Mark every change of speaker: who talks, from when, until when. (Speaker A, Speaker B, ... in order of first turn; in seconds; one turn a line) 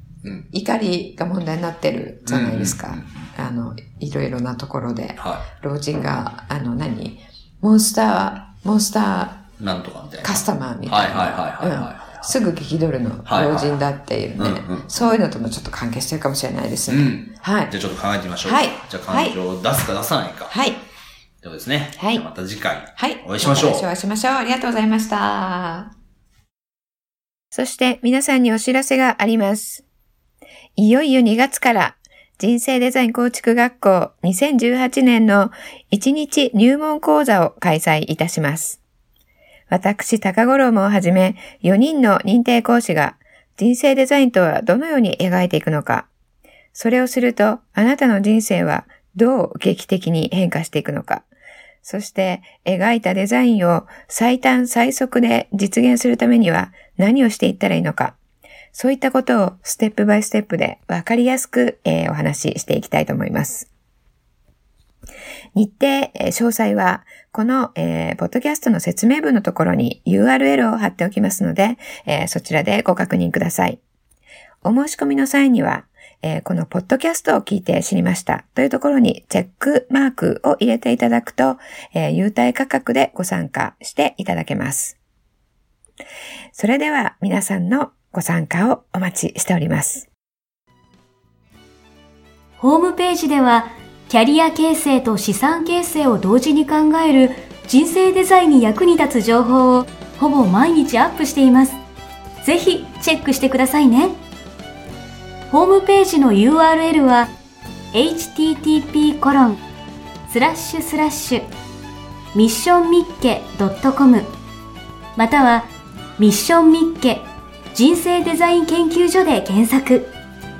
Speaker A: 0.5-9.5
Speaker B: 2.2-3.2
Speaker B: 5.2-5.5
Speaker B: 9.6-12.3
Speaker A: 10.2-17.7
Speaker B: 13.2-13.8
Speaker B: 14.4-15.0
Speaker B: 16.9-20.6
Speaker A: 18.4-19.3
Speaker A: 20.5-20.8
Speaker B: 21.4-23.9
Speaker A: 22.0-22.2
Speaker A: 22.9-25.9
Speaker A: 27.5-29.8
Speaker A: 30.8-38.8
Speaker A: 39.7-46.1
Speaker A: 46.7-51.3
Speaker A: 51.8-58.2
Speaker A: 58.7-63.7
Speaker A: 65.5-73.8
Speaker A: 74.6-85.0
Speaker A: 86.5-90.1
Speaker C: 92.6-101.8
Speaker C: 102.4-104.2
Speaker C: 105.5-107.3
Speaker C: 107.9-109.6
Speaker C: 110.3-111.5
Speaker C: 112.3-114.3
Speaker C: 115.2-120.1